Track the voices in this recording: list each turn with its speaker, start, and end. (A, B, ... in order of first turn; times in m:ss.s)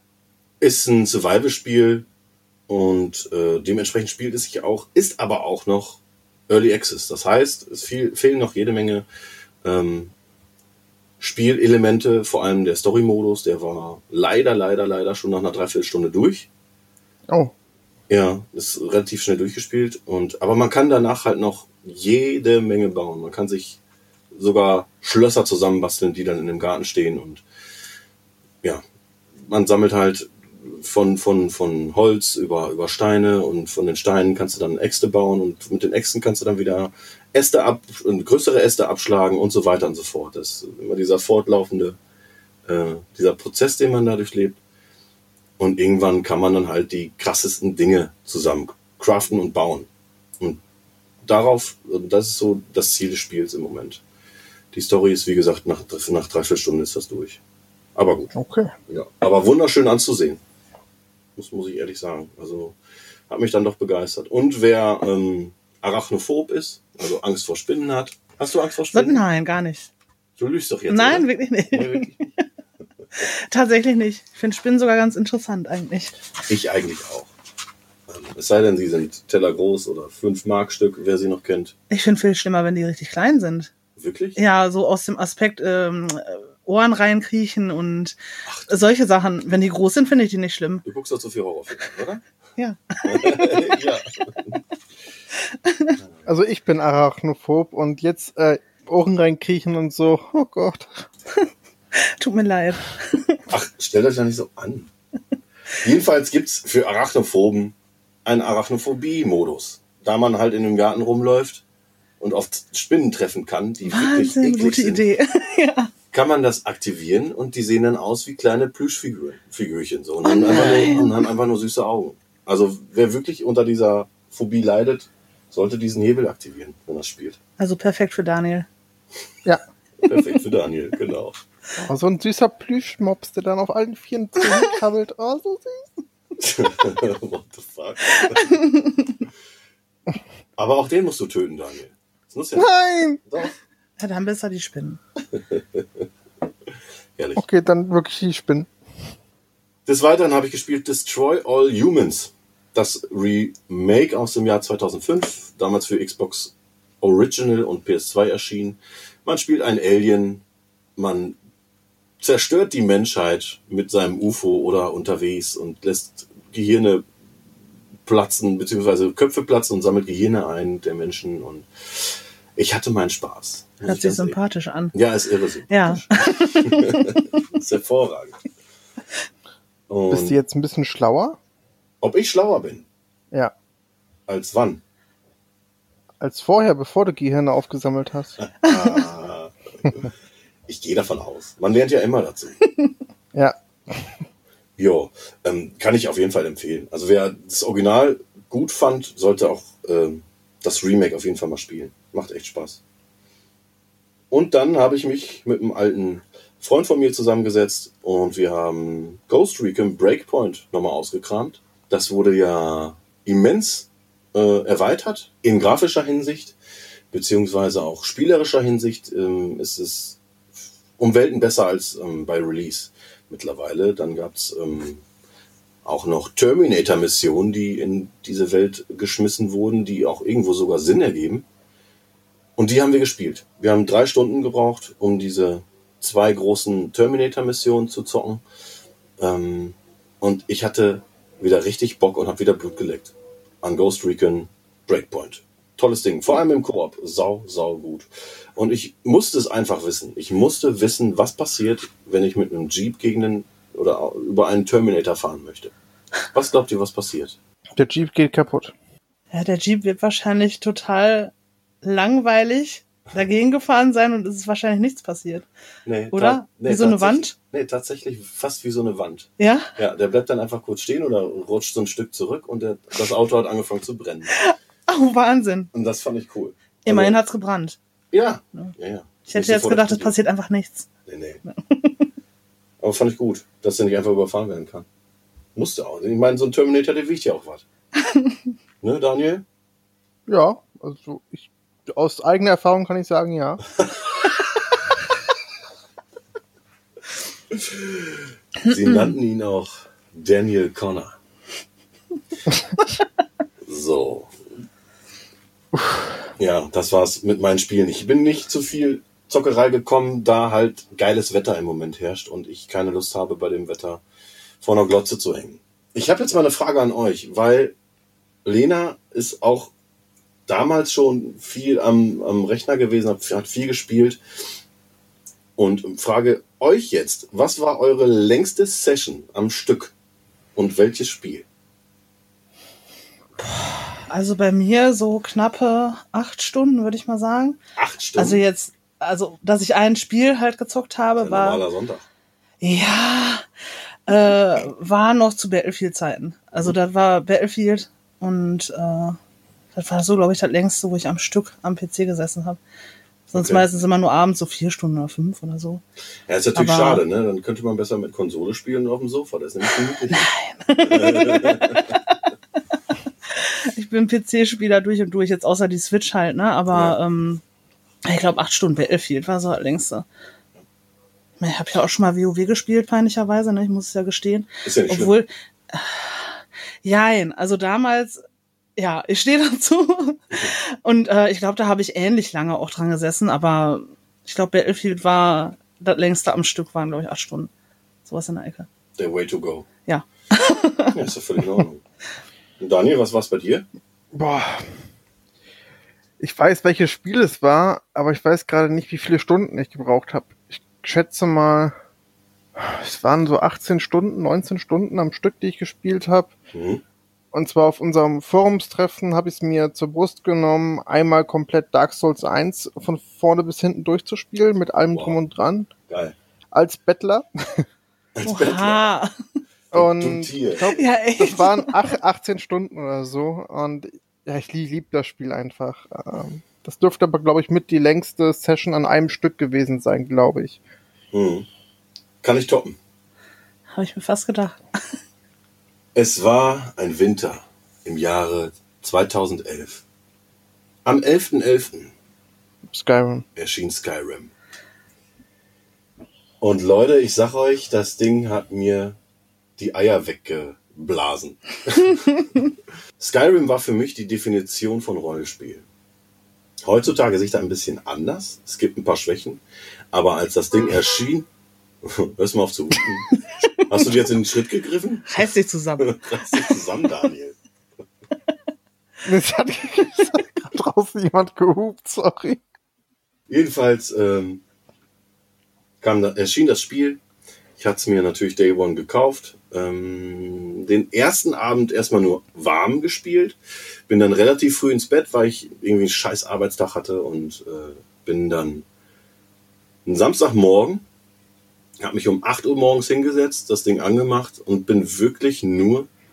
0:00.6-0:02.1 A
0:02.7-0:09.0 A
0:09.6-0:10.1 A
0:11.2-0:16.5 A
0:18.1-0:23.8 A
0:24.3-0:27.4 A
0:29.4-0:42.0 A
0:42.7-0:44.6 A
0:45.6-0:49.9 A
0:51.2-0:54.0 A
0:54.7-0:57.4 A
0:58.0-0:58.3 A
0:58.3-0:58.7 B
0:58.9-1:00.4 A
1:01.4-1:02.8 A
1:03.3-1:09.2 A
1:08.9-1:09.9 C
1:10.4-1:12.3 A
1:10.9-1:12.3 C
1:13.2-1:16.2 C
1:16.5-1:17.3 A
1:18.1-1:21.7 A
1:21.9-1:23.7 C
1:24.0-1:24.4 A
1:24.4-1:28.2 C
1:28.5-1:28.8 A
1:28.7-1:30.8 C
1:30.8-1:32.2 A
1:32.6-1:33.8 C
1:33.0-1:34.6 A
1:35.6-1:36.0 C
1:36.3-1:41.1 B
1:41.9-1:43.4 C
1:43.5-1:44.9 A
1:45.8-1:51.6 A
1:52.2-1:55.0 A
1:53.8-1:55.9 C
1:56.1-2:07.4 A
2:00.2-2:01.2 C
2:07.6-2:08.7 C
2:10.0-2:11.4 A
2:11.8-2:15.9 B
2:16.4-2:18.5 A
2:18.0-2:19.2 C
2:20.6-2:22.7 A
2:22.6-2:23.2 B
2:23.2-2:23.6 A
2:24.0-2:25.0 C
2:25.3-2:26.0 A
2:27.2-2:27.4 A
2:27.4-2:28.7 B
2:29.9-2:40.4 A
2:41.0-2:41.4 A
2:42.2-2:47.1 A
2:48.1-2:54.4 A
2:53.8-2:54.9 C
2:54.9-2:58.4 A
2:55.7-2:57.4 C
2:59.9-3:00.4 A
3:00.1-3:01.4 B
3:02.0-3:02.8 A
3:04.3-3:04.8 A
3:06.2-3:08.4 B
3:08.4-3:10.0 A
3:08.6-3:09.0 C
3:10.7-3:12.6 A
3:13.4-3:14.1 B
3:14.8-3:22.8 A
3:24.3-3:36.6 A
3:37.1-3:40.2 A
3:41.0-3:45.0 A
3:45.8-3:51.5 A
3:52.6-3:58.4 A
3:59.2-4:15.7 A
4:16.3-4:17.4 A
4:17.8-4:18.7 B
4:19.3-4:25.5 C
4:25.9-4:34.4 A
4:26.1-4:27.3 C
4:29.4-4:29.7 C
4:34.3-4:35.7 C
4:35.7-4:37.2 A
4:36.8-4:37.8 C
4:38.1-4:40.1 A
4:39.3-4:40.9 C
4:41.1-4:41.4 A
4:41.6-4:42.1 C
4:42.8-4:44.9 A
4:45.6-4:47.6 A
4:48.0-4:48.4 C
4:48.8-4:49.4 A
4:50.3-4:53.6 B
4:57.5-5:01.1 A
4:58.6-4:59.1 C
5:03.6-5:04.3 A
5:05.8-5:06.0 B
5:06.4-5:14.0 A
5:14.6-5:17.8 A
5:18.4-5:19.7 A
5:20.5-5:24.2 A
5:25.6-5:29.9 A
5:30.6-5:31.5 A
5:33.4-5:37.6 C
5:37.8-5:38.4 A
5:38.2-5:41.6 C
5:41.2-5:42.0 A
5:42.6-5:43.5 C
5:44.1-5:49.2 C
5:49.8-5:52.6 C
5:53.3-5:55.8 C
5:53.3-5:53.6 A
5:56.3-6:00.3 A
5:56.5-5:57.0 C
6:00.1-6:02.0 C
6:00.8-6:01.8 A
6:03.3-6:07.4 C
6:06.7-6:07.0 A
6:08.1-6:10.1 C
6:11.4-6:18.2 C
6:14.6-6:15.2 A
6:18.8-6:27.5 C
6:28.1-6:28.7 C
6:29.0-6:29.7 A
6:29.9-6:31.0 C
6:30.9-6:31.8 A
6:32.6-6:33.7 A
6:34.1-6:34.6 B
6:36.2-6:41.8 B
6:42.6-6:46.3 B
6:46.5-6:46.8 A
6:47.3-6:55.7 B
6:55.9-6:56.2 A
6:56.5-6:57.7 B
6:58.2-6:58.9 A
6:58.2-6:59.1 C
6:59.7-7:00.7 A
6:59.7-7:10.6 B
7:00.7-7:01.8 C
7:11.1-7:11.5 A
7:12.2-7:12.8 A
7:13.7-7:14.6 C
7:16.0-7:19.8 A
7:20.8-7:21.9 A
7:22.7-7:23.2 B
7:23.4-7:24.3 A
7:26.4-7:29.0 A
7:29.6-7:32.2 A
7:33.0-7:35.6 A
7:36.6-7:39.4 A
7:39.9-7:41.3 A
7:41.8-7:43.1 A
7:43.7-7:45.2 A
7:45.1-7:46.6 C
7:45.8-7:47.4 A
7:49.1-7:52.4 B
7:53.3-7:54.4 A
7:55.8-7:57.0 A
7:57.6-8:08.7 A
8:09.8-8:10.8 A
8:11.8-8:15.9 A